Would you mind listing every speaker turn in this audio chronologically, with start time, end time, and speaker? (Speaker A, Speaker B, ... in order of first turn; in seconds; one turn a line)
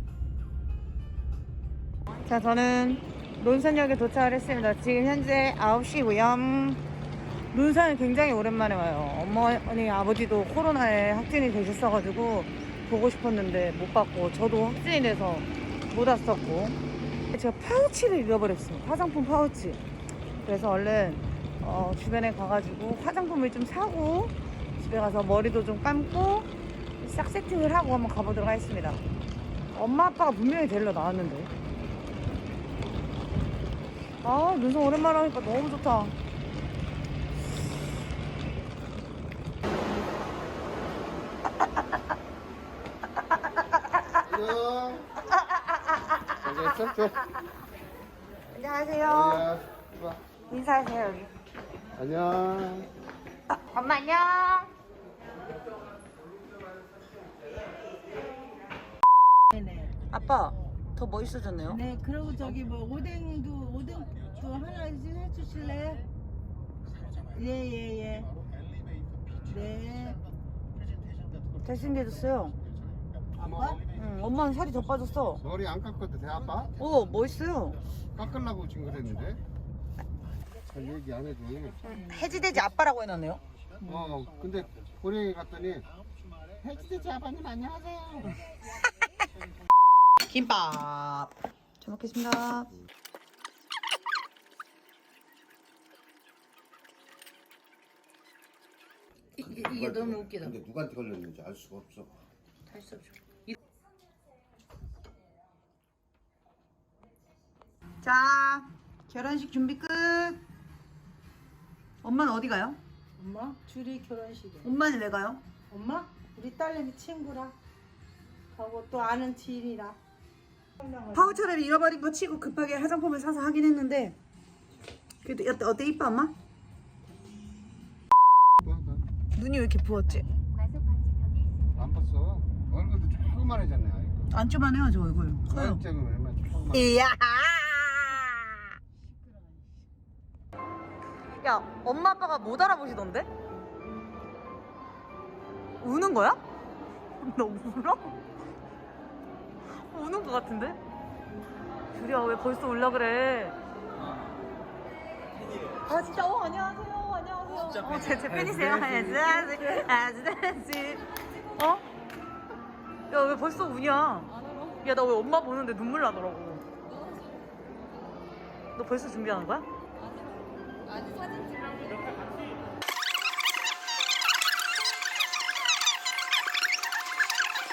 Speaker A: 2.2-6.8
Speaker A: 7.5-16.8
Speaker A: 17.3-19.8
Speaker A: 20.4-26.5
Speaker A: 27.0-29.0
Speaker A: 29.7-31.5
Speaker A: 34.2-36.1
Speaker B: 44.2-45.1
Speaker A: 45.3-47.1
Speaker B: 46.4-47.3
Speaker A: 48.5-49.5
Speaker B: 49.0-50.2
Speaker A: 50.5-51.3
Speaker B: 52.0-52.9
Speaker A: 53.5-54.7
Speaker C: 59.5-60.0
Speaker A: 60.1-61.8
Speaker C: 61.6-66.1
Speaker C: 67.3-68.3
Speaker C: 69.4-70.2
Speaker A: 71.6-72.6
Speaker C: 73.4-73.8
Speaker A: 73.9-75.4
Speaker B: 75.4-76.8
Speaker A: 76.8-77.8
Speaker B: 78.1-79.4
Speaker B: 80.7-81.8
Speaker A: 81.8-83.4
Speaker B: 83.8-85.9
Speaker B: 86.6-88.4
Speaker A: 90.3-92.7
Speaker B: 99.5-102.1
Speaker A: 108.0-110.4
Speaker A: 112.0-112.8
Speaker C: 113.2-114.7
Speaker A: 114.6-115.4
Speaker C: 115.7-117.5
Speaker C: 118.5-120.0
Speaker C: 120.8-121.4
Speaker A: 121.1-124.2
Speaker A: 125.2-126.3
Speaker B: 128.6-129.0
Speaker A: 129.3-130.4
Speaker B: 131.7-134.3
Speaker A: 134.3-135.8
Speaker B: 135.5-137.0
Speaker A: 136.7-138.6
Speaker A: 141.4-143.3
Speaker A: 145.8-146.4
Speaker A: 147.2-148.1
Speaker A: 149.9-150.8
Speaker A: 151.9-153.6
Speaker A: 155.9-161.0
Speaker A: 161.6-161.8
Speaker A: 163.1-166.6
Speaker A: 168.8-169.7